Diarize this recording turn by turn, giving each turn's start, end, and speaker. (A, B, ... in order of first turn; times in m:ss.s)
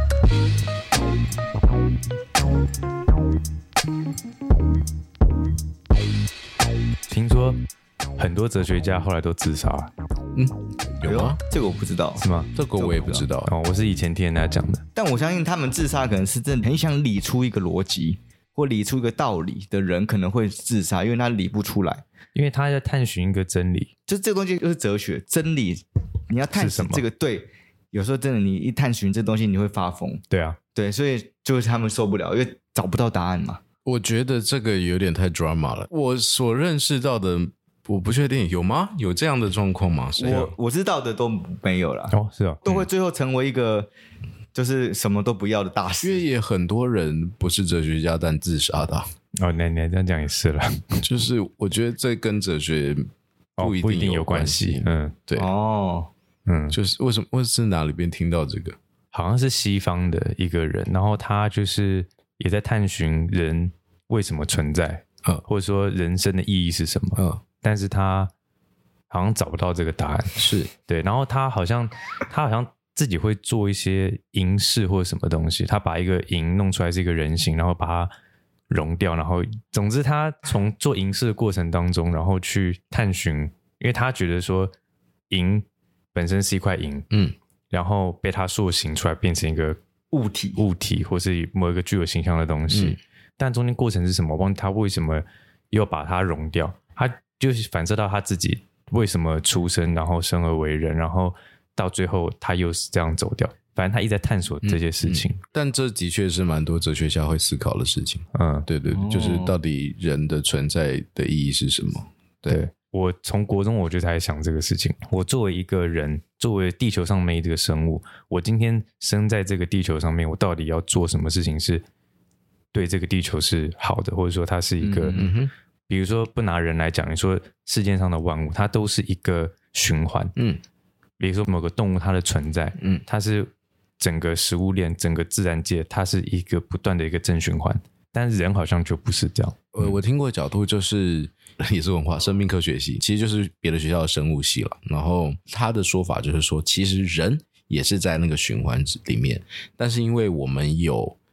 0:07.1-0:07.6 A
0:08.2-0:09.9 A
0:10.4-0:11.4 B
0:11.0-0:13.2 C
0:12.2-0:12.5 A
0:12.5-0:13.5 B
0:13.5-0:14.8 A
0:15.0-0:22.0 C
0:22.3-0:23.9 A
0:24.1-0:30.2 C
0:26.5-0:27.0 A
0:30.3-0:30.6 A
0:30.7-0:33.6 C
0:33.8-0:40.5 B
0:40.2-0:43.9 C
0:42.1-0:42.8 A
0:44.5-0:46.2 C
0:46.0-0:49.1 B
0:49.4-0:51.0 A
0:51.0-0:55.5 B
0:53.6-0:55.2 A
0:55.4-0:56.1 C
0:56.4-0:56.8 A
0:56.7-0:58.8 B
0:59.1-1:08.3 A
1:09.1-1:18.1 A
1:10.4-1:10.7 B
1:18.7-1:24.7 A
1:25.3-1:27.1 A
1:27.7-1:29.8 A
1:30.1-1:30.6 C
1:30.6-1:45.4 A
1:32.7-1:33.0 B
1:44.6-1:52.6 B
1:48.3-1:48.7 A
1:48.9-1:49.5 C
1:52.5-2:01.8 A
2:02.7-2:05.2 A
2:04.8-2:05.3 C
2:05.2-2:05.5 B
2:05.9-2:10.4 A
2:11.2-2:20.0 A
2:19.7-2:31.2 B